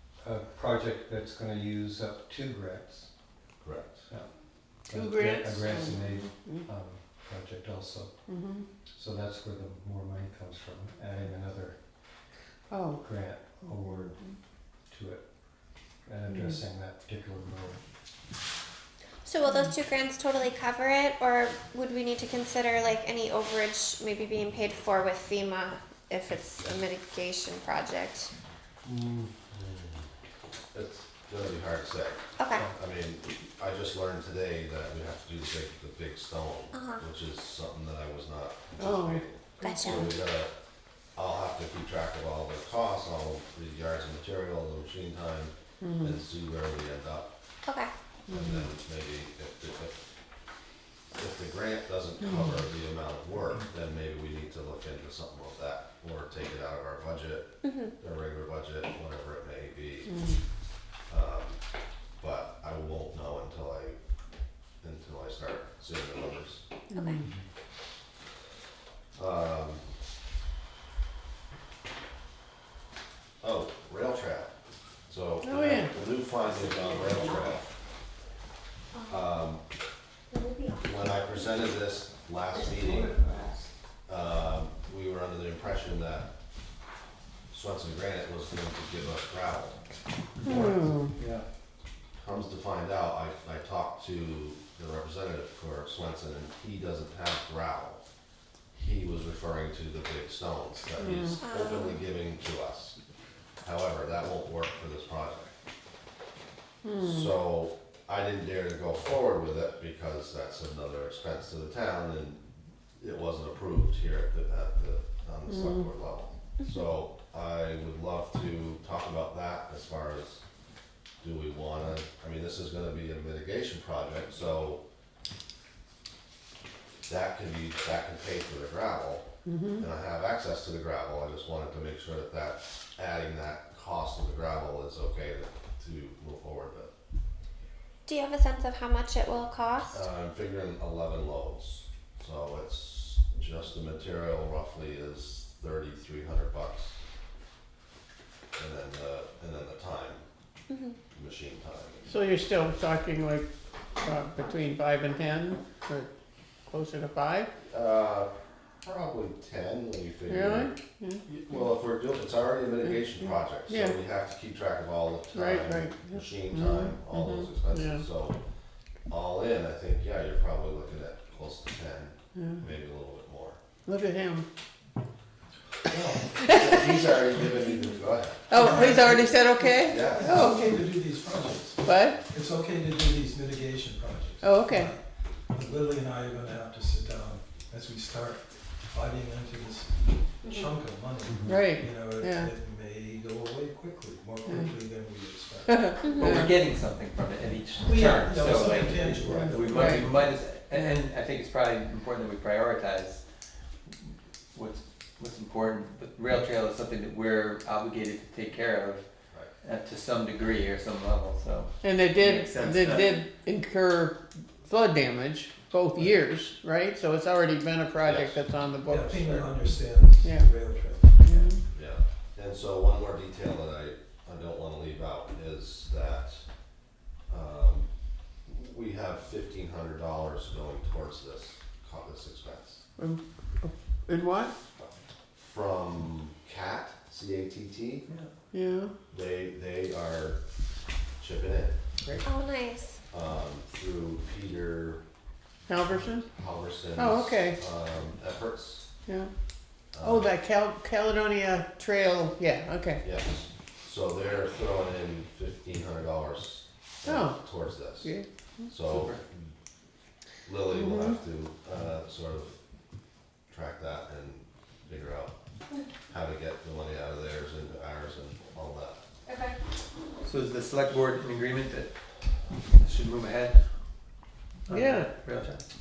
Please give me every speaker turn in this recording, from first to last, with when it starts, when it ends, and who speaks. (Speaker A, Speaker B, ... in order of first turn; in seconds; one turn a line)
Speaker A: 0.2-3.1
Speaker B: 3.6-4.0
Speaker A: 4.9-8.1
Speaker C: 4.9-6.7
Speaker C: 8.3-8.7
Speaker A: 9.0-11.8
Speaker C: 12.7-13.0
Speaker A: 13.0-14.2
Speaker C: 13.6-14.2
Speaker A: 14.9-15.2
Speaker A: 16.1-17.8
Speaker C: 16.3-16.6
Speaker D: 19.2-28.3
Speaker A: 28.8-29.6
Speaker B: 29.7-30.0
Speaker B: 30.7-40.5
Speaker D: 32.4-32.7
Speaker D: 36.7-37.0
Speaker C: 38.8-39.2
Speaker D: 39.6-40.1
Speaker B: 41.2-47.3
Speaker C: 45.8-46.2
Speaker D: 47.7-47.9
Speaker C: 48.3-48.6
Speaker B: 48.3-50.0
Speaker B: 51.1-60.2
Speaker C: 52.2-52.5
Speaker D: 57.6-57.9
Speaker C: 60.1-60.4
Speaker B: 61.1-61.6
Speaker B: 62.2-64.0
Speaker B: 64.8-66.6
Speaker C: 66.9-67.2
Speaker B: 69.2-69.9
Speaker B: 73.4-74.5
Speaker B: 75.1-77.7
Speaker C: 75.4-75.9
Speaker B: 79.1-79.6
Speaker B: 80.8-83.2
Speaker B: 84.1-86.3
Speaker B: 87.5-89.8
Speaker E: 90.4-91.4
Speaker C: 90.5-91.1
Speaker B: 92.2-98.0
Speaker B: 98.7-103.0
Speaker C: 101.0-101.4
Speaker D: 101.4-102.0
Speaker B: 103.6-105.5
Speaker C: 106.8-107.3
Speaker B: 107.0-112.4
Speaker B: 113.0-120.4
Speaker C: 115.5-115.9
Speaker B: 121.2-124.8
Speaker B: 127.1-129.2
Speaker C: 129.5-129.8
Speaker B: 129.8-136.9
Speaker D: 138.1-140.0
Speaker B: 139.9-147.0
Speaker B: 148.6-150.2
Speaker D: 150.7-151.0
Speaker B: 151.1-152.1
Speaker C: 152.1-156.1
Speaker C: 156.7-157.5
Speaker B: 157.7-158.3
Speaker B: 158.8-160.7
Speaker C: 160.3-161.2
Speaker B: 161.3-168.4
Speaker C: 162.8-164.0
Speaker C: 165.3-168.0
Speaker B: 169.1-173.6
Speaker C: 172.3-172.6
Speaker C: 173.9-174.4
Speaker B: 175.9-178.6
Speaker C: 178.5-180.7
Speaker F: 178.5-196.3
Speaker B: 179.8-180.4
Speaker C: 181.8-182.2
Speaker C: 184.4-184.9
Speaker A: 191.3-191.7
Speaker C: 191.5-192.5
Speaker C: 194.5-194.8
Speaker C: 195.7-196.5
Speaker E: 196.1-203.2
Speaker F: 197.8-200.4
Speaker C: 199.4-200.1
Speaker E: 204.0-209.0
Speaker E: 209.6-213.2
Speaker C: 211.8-219.5
Speaker B: 218.0-218.4
Speaker F: 218.9-221.5
Speaker C: 220.2-220.5
Speaker C: 221.2-221.6
Speaker B: 221.7-226.4
Speaker B: 227.3-227.9
Speaker B: 228.5-232.8
Speaker C: 233.0-234.5
Speaker B: 234.8-238.1
Speaker C: 238.5-238.9
Speaker B: 239.1-240.4
Speaker B: 241.2-241.8
Speaker D: 242.2-243.0
Speaker B: 243.1-245.0
Speaker C: 245.7-246.3
Speaker B: 246.2-248.9
Speaker C: 247.0-247.6
Speaker C: 249.1-249.3
Speaker B: 249.9-250.3
Speaker C: 250.0-253.0
Speaker B: 253.0-258.1
Speaker C: 257.1-257.4
Speaker C: 258.0-258.7
Speaker B: 258.7-259.5
Speaker E: 258.9-259.2
Speaker B: 260.4-262.6
Speaker C: 260.7-261.2
Speaker B: 263.5-265.3
Speaker B: 266.1-269.0
Speaker E: 270.2-271.9
Speaker E: 272.8-273.7
Speaker E: 274.7-275.6
Speaker C: 274.7-275.1